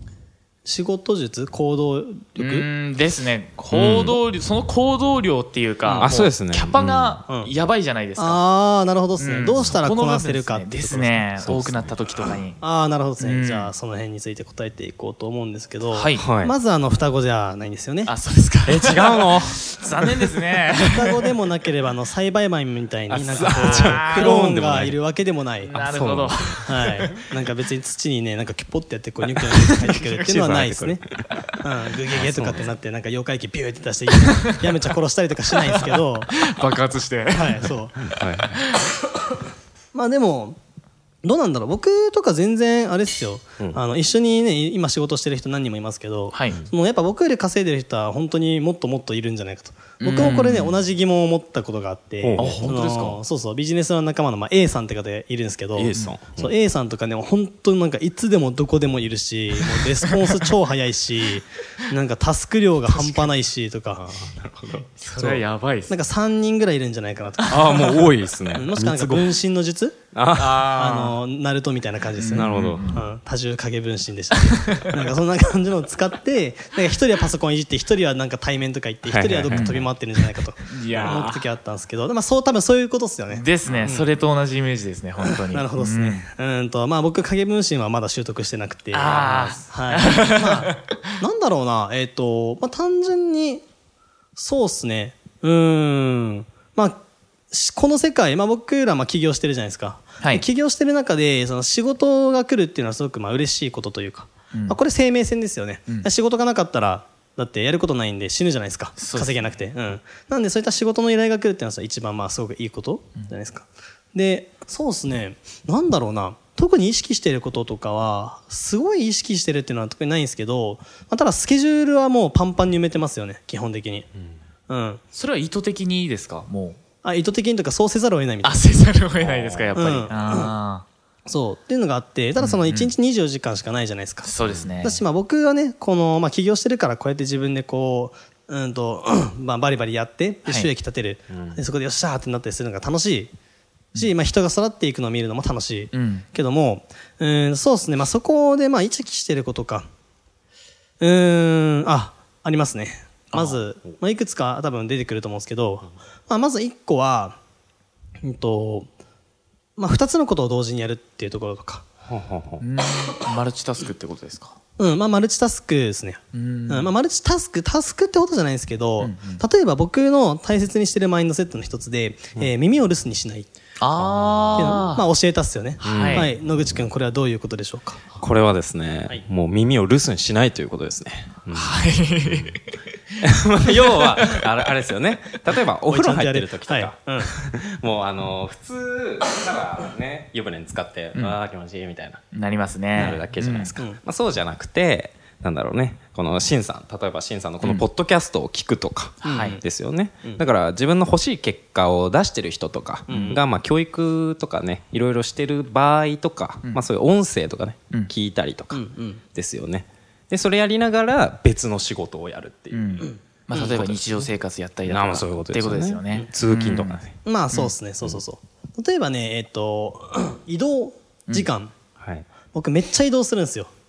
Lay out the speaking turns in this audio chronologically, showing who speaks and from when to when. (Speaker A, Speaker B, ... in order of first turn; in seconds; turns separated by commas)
Speaker A: 0.7-2.7, Speaker B: 2.4-8.4, Speaker C: 3.7-4.2, Speaker C: 5.9-7.2, Speaker A: 6.0-6.3, Speaker A: 8.2-11.3, Speaker B: 9.2-12.6, Speaker C: 11.4-12.2, Speaker A: 12.6-18.1, Speaker B: 13.2-13.7, Speaker B: 15.9-16.3, Speaker C: 16.2-16.5, Speaker B: 18.1-21.2, Speaker C: 18.7-19.6, Speaker A: 20.8-25.8, Speaker C: 23.1-25.0, Speaker B: 23.3-24.5, Speaker B: 25.6-27.1, Speaker C: 25.7-27.1, Speaker A: 26.6-31.1, Speaker B: 29.4-30.2, Speaker C: 30.2-31.3, Speaker A: 31.6-36.4, Speaker B: 32.2-32.7, Speaker B: 34.1-34.8, Speaker B: 35.6-37.7, Speaker A: 37.3-38.0, Speaker C: 38.0-38.6, Speaker B: 38.6-38.9, Speaker A: 39.9-40.6, Speaker A: 41.2-64.3, Speaker B: 46.3-46.6, Speaker B: 50.0-50.8, Speaker C: 52.2-53.1, Speaker B: 52.4-53.2, Speaker C: 55.8-56.5, Speaker B: 60.1-60.4, Speaker B: 62.9-63.3, Speaker C: 64.3-64.9, Speaker B: 65.0-66.0, Speaker A: 65.2-70.1, Speaker B: 67.5-68.1, Speaker C: 67.5-69.4, Speaker C: 70.1-70.7, Speaker B: 70.3-71.2, Speaker A: 70.6-84.1, Speaker B: 72.2-73.0, Speaker C: 72.3-72.8, Speaker B: 74.4-74.9, Speaker C: 79.0-80.0, Speaker B: 79.5-79.8, Speaker B: 80.7-81.5, Speaker C: 80.9-81.2, Speaker B: 83.3-86.2, Speaker C: 83.7-84.0, Speaker A: 85.3-93.7, Speaker B: 88.9-91.0, Speaker A: 94.4-124.1, Speaker B: 100.2-100.5, Speaker B: 104.5-104.8, Speaker B: 109.0-109.6, Speaker A: 124.7-125.0, Speaker B: 125.1-126.8, Speaker A: 127.0-128.6, Speaker B: 128.4-130.8, Speaker C: 129.2-130.1, Speaker A: 129.8-130.6, Speaker A: 131.2-143.3, Speaker B: 132.4-132.9, Speaker B: 134.2-135.0, Speaker C: 134.4-134.7, Speaker C: 141.3-141.6, Speaker A: 143.9-149.9, Speaker B: 145.9-146.2, Speaker A: 151.0-157.4, Speaker B: 153.3-153.6, Speaker A: 158.2-158.9, Speaker A: 159.8-161.9, Speaker C: 162.1-162.6, Speaker B: 162.6-164.6, Speaker A: 164.8-173.5, Speaker B: 166.3-166.9, Speaker B: 169.0-169.4, Speaker B: 173.8-175.1, Speaker C: 174.1-174.7, Speaker A: 174.6-178.1, Speaker B: 175.8-176.3, Speaker C: 175.8-176.3, Speaker C: 178.2-182.5, Speaker B: 181.5-182.8, Speaker C: 183.2-192.2, Speaker B: 183.9-184.4, Speaker A: 185.9-187.3, Speaker B: 192.3-193.7, Speaker C: 192.9-208.8, Speaker B: 199.2-199.6, Speaker A: 199.2-199.6, Speaker A: 203.1-203.4, Speaker A: 208.7-209.2, Speaker C: 209.3-212.9, Speaker B: 212.7-217.7, Speaker A: 213.0-213.8, Speaker C: 213.7-214.1, Speaker C: 214.8-217.1, Speaker A: 217.2-221.7, Speaker C: 222.0-222.3, Speaker A: 222.5-223.7